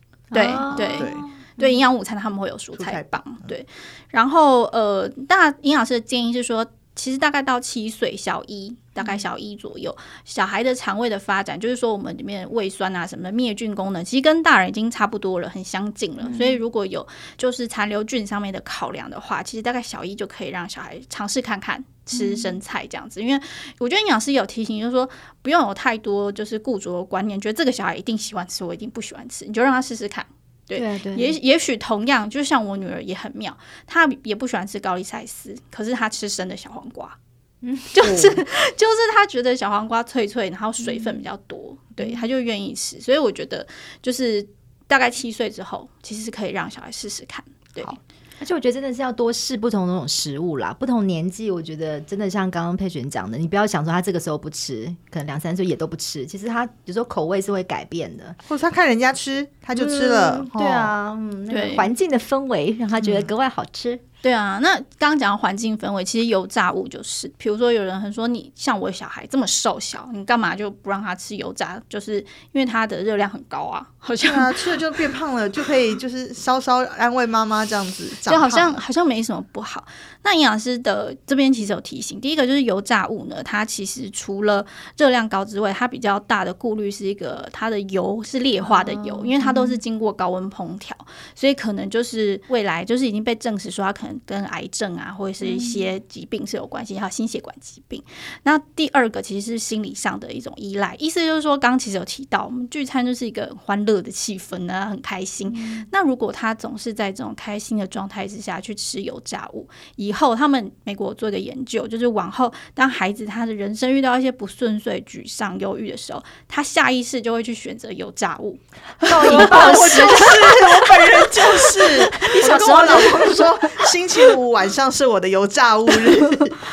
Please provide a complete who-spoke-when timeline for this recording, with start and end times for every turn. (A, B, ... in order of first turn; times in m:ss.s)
0:00.3-0:01.8 A
0:00.3-0:37.2 B
0:00.7-0:01.2 C
0:02.8-0:03.5 C
0:09.0-0:09.2 A
0:16.2-0:16.6 A
0:22.1-0:22.6 A
0:30.8-0:31.3 A
0:37.6-0:38.3 A
0:37.9-0:48.0 B
0:40.8-0:41.2 A
0:48.4-0:58.4 A
0:58.5-1:00.9 C
0:59.8-1:04.0 A
1:01.5-1:01.9 B
1:03.0-1:03.3 C
1:04.2-1:14.9 B
1:14.2-1:18.8 C
1:18.3-2:00.6 B
1:28.6-1:29.8 A
1:35.4-1:35.8 A
1:45.5-1:45.9 A
1:59.1-2:01.2 A
1:59.1-2:06.6 C
2:01.9-2:03.5 A
2:02.2-2:03.4 B